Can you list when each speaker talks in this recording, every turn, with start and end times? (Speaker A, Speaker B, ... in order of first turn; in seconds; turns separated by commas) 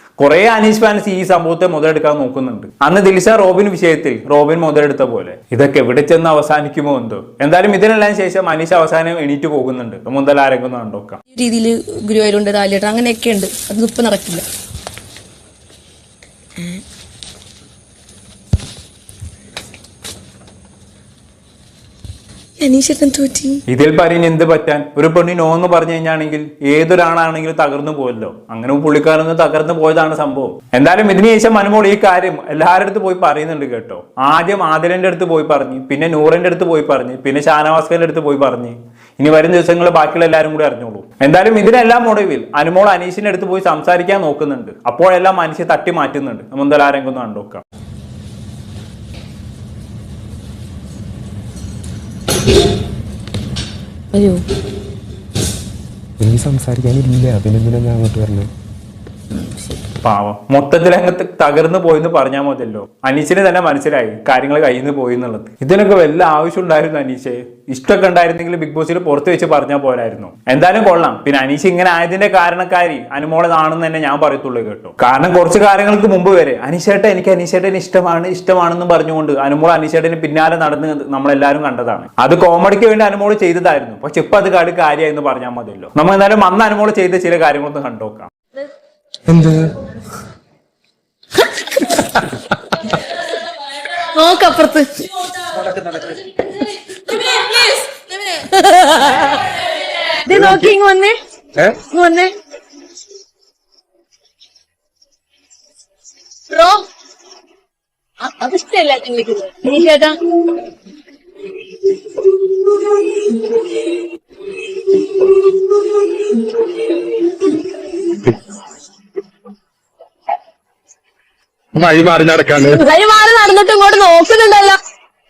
Speaker A: 0.2-11.2, Speaker B: 11.3-14.4, Speaker B: 22.6-23.6, Speaker A: 23.7-47.6, Speaker B: 54.1-54.4, Speaker C: 56.2-58.5, Speaker B: 59.3-59.8, Speaker A: 60.0-88.3, Speaker C: 89.3-89.7, Speaker B: 94.2-95.1, Speaker B: 97.1-99.4, Speaker D: 100.3-100.8, Speaker B: 100.3-100.9, Speaker D: 101.6-101.8, Speaker B: 101.9-102.3, Speaker B: 109.6-109.8, Speaker D: 121.7-122.8, Speaker B: 122.9-124.6